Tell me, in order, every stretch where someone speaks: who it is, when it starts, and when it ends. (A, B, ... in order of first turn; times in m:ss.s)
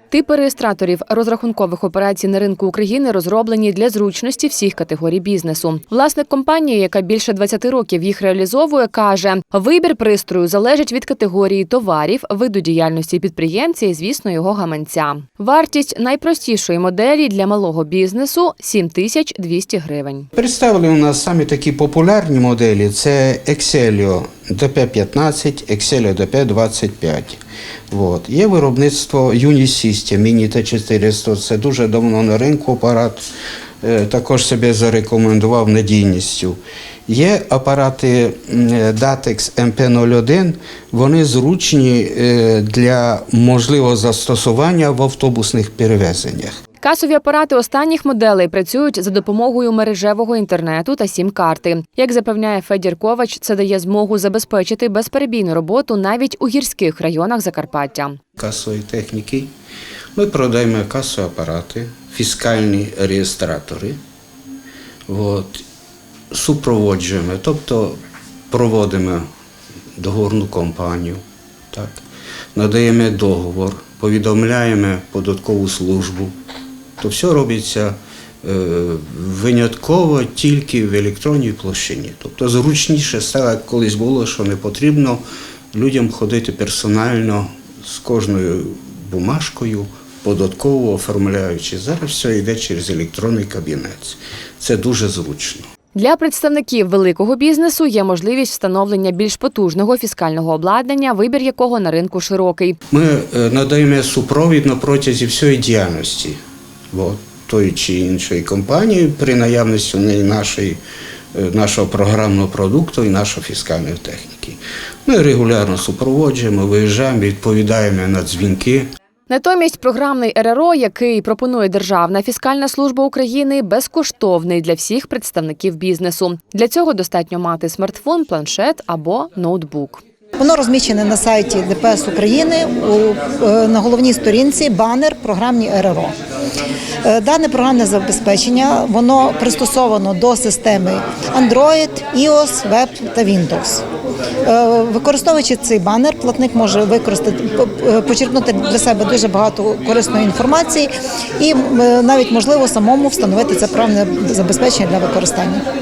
0:00.1-0:20.3 A
0:20.4-0:27.4 B
0:27.9-0:33.2 B
0:33.8-0:46.6 B
0:46.8-0:58.2 A
0:58.4-0:59.5 B
1:00.2-1:04.0 B
1:05.1-1:05.6 B
1:06.3-1:08.0 B
1:08.5-1:09.2 B
1:10.0-1:11.2 B
1:11.7-1:12.0 B
1:12.6-1:16.3 B
1:17.0-1:25.2 B
1:25.7-1:35.7 B
1:36.0-1:42.8 A
1:42.9-1:46.4 B
1:46.9-1:50.8 B
1:51.3-1:58.9 B
1:59.3-2:10.0 A
2:10.4-2:16.1 C
2:17.0-2:23.8 C
2:24.4-2:30.9 C
2:31.4-2:35.6 C